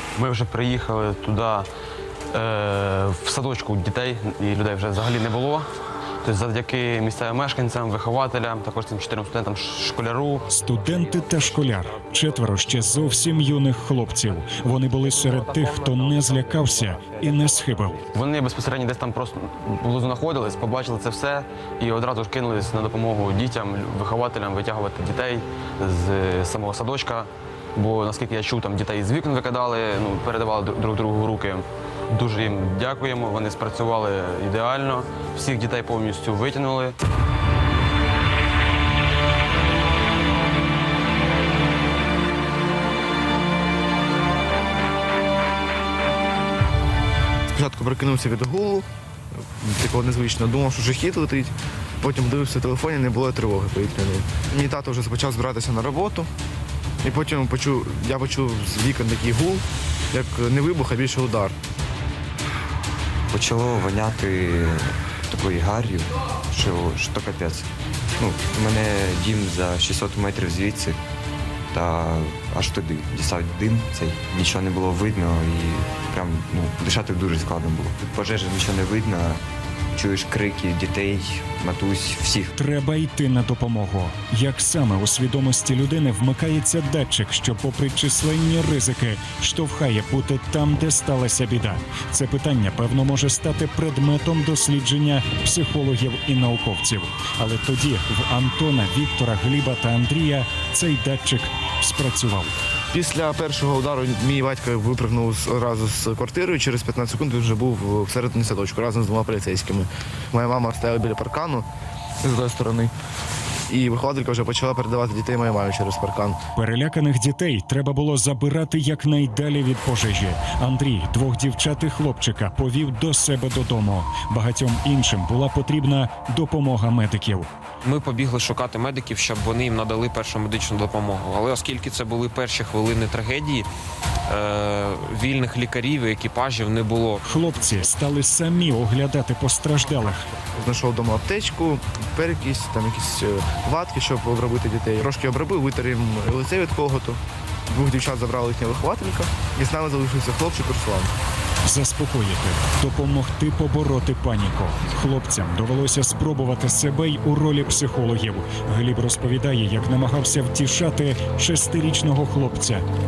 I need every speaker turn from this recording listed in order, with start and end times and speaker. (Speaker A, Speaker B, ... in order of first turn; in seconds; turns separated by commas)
Speaker A: 0.1-1.7, Speaker A: 2.3-5.7, Speaker A: 6.2-10.4, Speaker B: 10.5-18.0, Speaker A: 18.1-37.0, Speaker C: 47.5-48.9, Speaker C: 49.6-56.3, Speaker C: 57.0-61.6, Speaker D: 63.3-67.7, Speaker D: 68.2-71.0, Speaker D: 71.7-79.4, Speaker D: 79.9-82.5, Speaker B: 82.6-102.5, Speaker C: 102.9-111.7, Speaker C: 112.2-112.9, Speaker C: 113.7-116.4, Speaker B: 116.6-127.5, Speaker E: 127.8-133.7, Speaker E: 134.3-137.3, Speaker B: 137.2-140.2, Speaker C: 140.6-151.1, Speaker B: 151.7-162.9